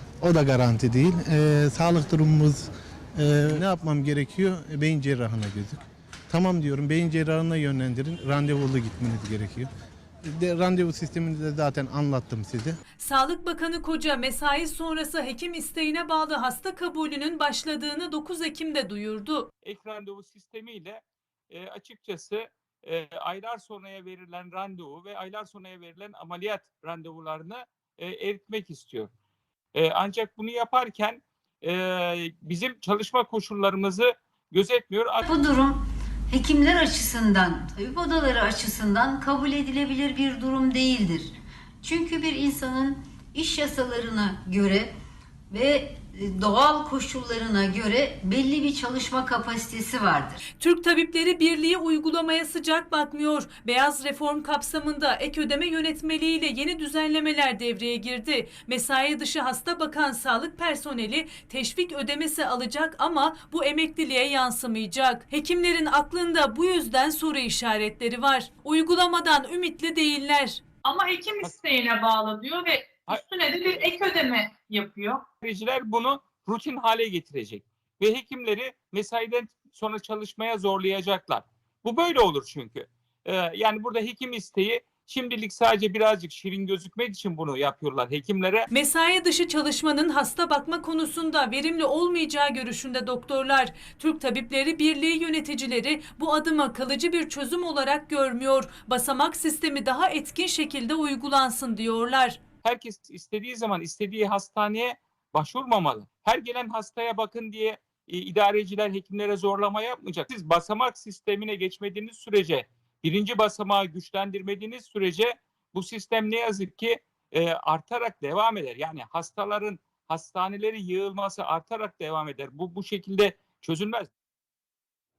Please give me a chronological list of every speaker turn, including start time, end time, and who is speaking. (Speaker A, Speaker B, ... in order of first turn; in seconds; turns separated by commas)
Speaker A: 0.2-9.7, Speaker A: 10.2-12.8, Speaker B: 13.0-19.5, Speaker C: 19.6-29.1, Speaker C: 29.7-35.2, Speaker D: 35.2-44.9, Speaker D: 45.5-50.4, Speaker B: 50.6-70.6, Speaker E: 70.8-75.2, Speaker C: 75.4-88.7, Speaker B: 88.7-102.4, Speaker C: 102.6-124.1